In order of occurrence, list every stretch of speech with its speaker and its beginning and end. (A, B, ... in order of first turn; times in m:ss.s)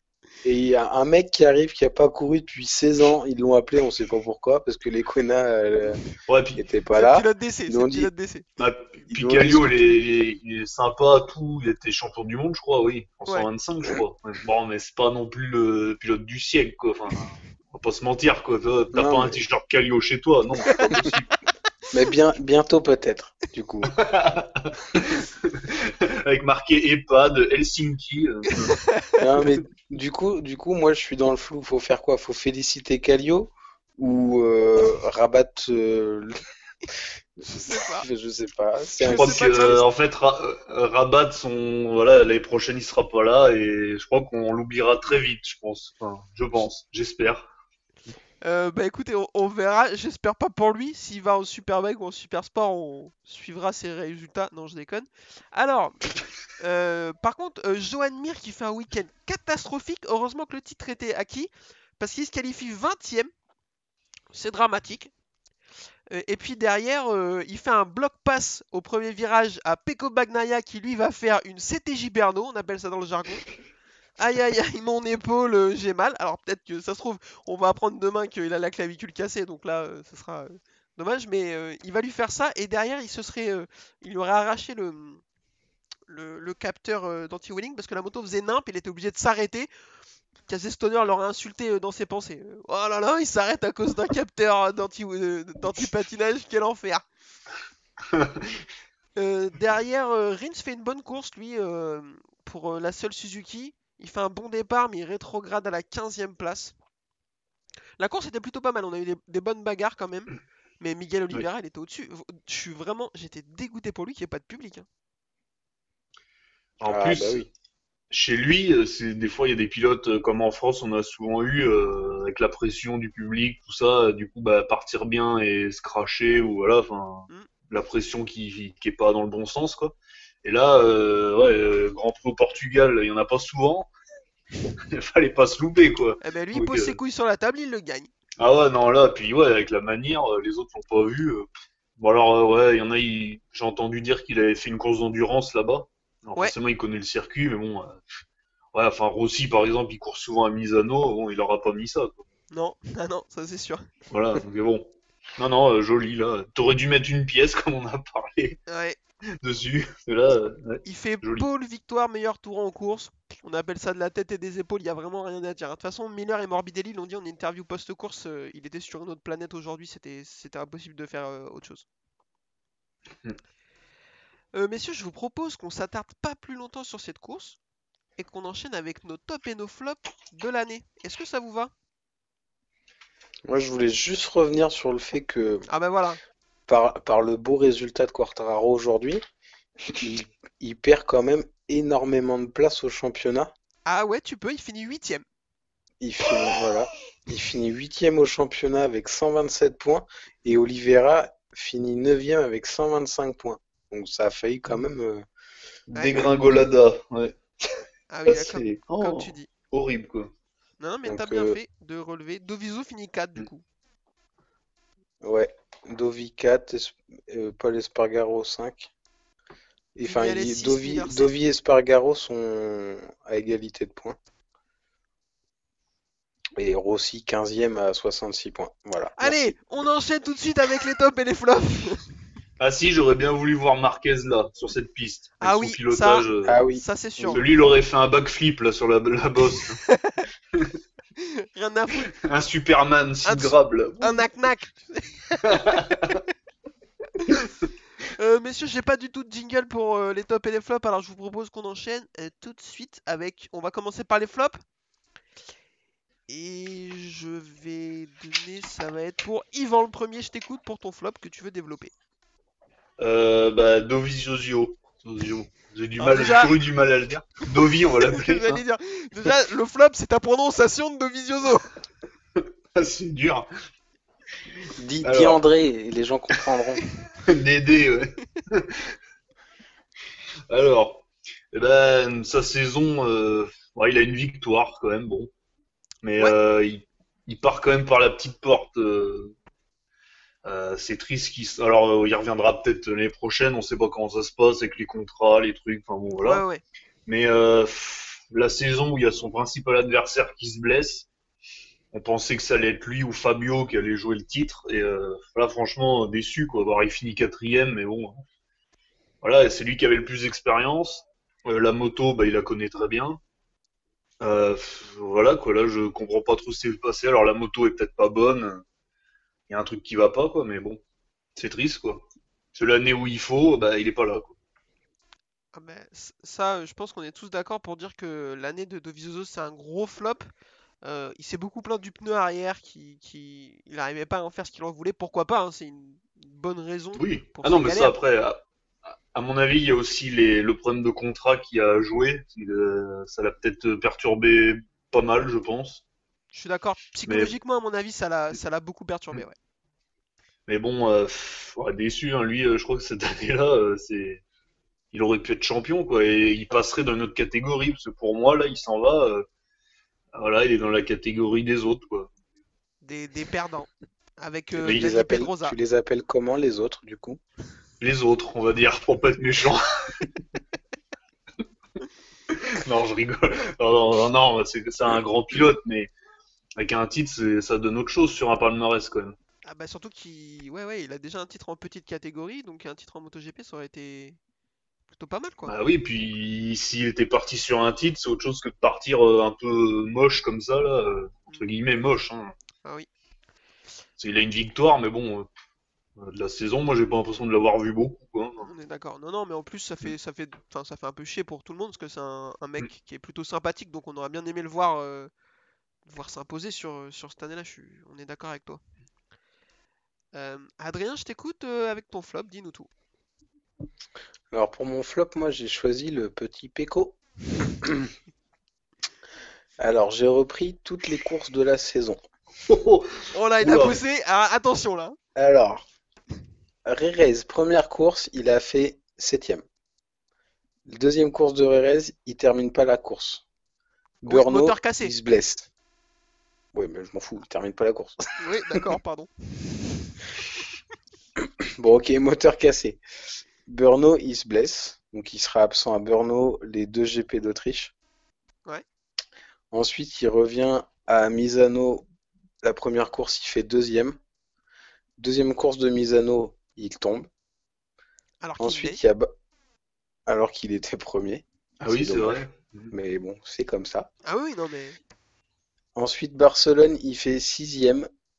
0:00.4-0:06.0 A
0:06.3-0:06.6 B
0:06.6-0:08.1 A
0:06.9-0:08.5 C
0:08.6-0:21.3 B
0:09.1-0:09.9 A
0:18.9-0:19.4 A
0:20.7-0:21.2 C
0:21.9-0:24.0 A
0:23.9-0:28.8 B
0:29.2-0:36.4 A
0:37.4-0:39.8 A
0:37.5-0:38.1 C
0:39.0-0:39.8 C
0:39.0-0:47.5 B
0:48.4-0:56.0 C
0:56.6-1:03.3 C
1:04.3-1:05.1 C
1:06.1-1:13.5 C
1:14.2-1:25.2 C
1:26.1-1:29.7 C
1:30.5-1:37.0 C
1:38.1-1:38.4 B
1:39.2-1:46.8 C
1:48.0-1:54.9 C
1:56.8-1:57.5 B
1:56.9-1:57.5 A
1:58.1-2:13.9 B
2:14.6-2:17.0 B
2:16.2-2:18.1 C
2:18.4-2:28.0 B
2:28.7-2:32.3 B
2:32.5-2:33.9 C
2:34.1-2:38.6 B
2:38.7-2:39.0 C
2:39.4-2:41.5 B
2:40.8-2:51.9 C
2:54.5-2:57.6 C
2:58.2-3:01.7 C
3:03.5-3:05.7 A
3:05.7-3:06.2 C
3:06.7-3:09.2 A
3:10.0-3:13.5 A
3:13.9-3:15.2 C
3:16.0-3:25.2 A
3:25.9-3:27.4 B
3:26.0-3:26.3 C
3:28.1-3:29.5 C
3:28.3-3:30.3 B
3:30.8-3:33.6 C
3:31.0-3:31.6 A
3:35.2-3:38.9 A
3:40.0-3:44.2 A
3:40.0-3:41.3 C
3:46.6-3:49.5 A
3:49.2-3:52.0 C
3:52.6-3:56.6 B
3:55.4-3:57.5 C
3:56.4-3:57.4 A
3:57.3-3:59.8 B
3:59.9-4:00.2 C
4:01.2-4:02.1 C
4:02.2-4:04.3 B
4:03.2-4:06.1 C
4:05.4-4:06.2 B
4:08.2-4:14.6 C
4:16.3-4:21.9 C
4:23.0-4:28.6 B
4:26.0-4:26.6 C
4:28.1-4:31.7 C
4:32.8-4:33.5 B
4:34.8-4:36.8 A
4:35.0-4:35.4 B
4:37.2-4:38.9 B
4:40.5-4:45.3 B
4:46.0-4:49.3 B
4:50.4-4:56.4 B
4:56.2-4:56.6 C
4:57.1-5:01.1 B
5:01.9-5:08.2 B
5:09.2-5:13.2 B
5:14.2-5:18.6 B
5:19.5-5:20.8 B
5:21.4-5:24.4 B
5:25.5-5:30.3 C
5:30.8-5:38.0 C
5:37.0-5:45.8 B
5:46.3-5:49.4 C
5:47.1-5:47.3 B
5:50.5-5:54.2 B
5:54.9-5:59.3 B
6:00.1-6:02.1 B
6:02.8-6:03.7 C
6:04.2-6:05.6 C
6:04.6-6:07.2 A
6:07.8-6:10.1 B
6:12.3-6:15.9 B
6:16.6-6:19.2 B
6:19.4-6:24.2 C
6:24.9-6:25.5 C
6:25.4-6:32.3 B
6:34.0-6:35.3 B
6:36.0-6:38.5 B
6:38.4-6:45.1 C
6:45.9-6:48.6 C
6:50.1-6:52.7 C
6:54.3-6:57.0 A
6:57.5-6:57.9 A
6:59.6-7:02.0 A
7:02.5-7:03.8 B
7:03.1-7:05.0 C
7:05.2-7:05.7 A
7:06.7-7:09.4 A
7:10.7-7:13.2 A
7:14.0-7:14.9 C
7:14.1-7:15.5 A
7:16.5-7:18.7 A
7:18.2-7:19.1 C
7:21.6-7:22.8 A
7:23.4-7:27.7 A
7:29.5-7:31.9 A
7:32.4-7:34.0 A
7:35.0-7:37.1 A
7:38.2-7:38.8 C
7:38.4-7:39.1 A
7:40.1-7:43.9 A
7:41.6-7:42.7 B
7:44.1-7:44.8 C
7:45.7-7:47.9 A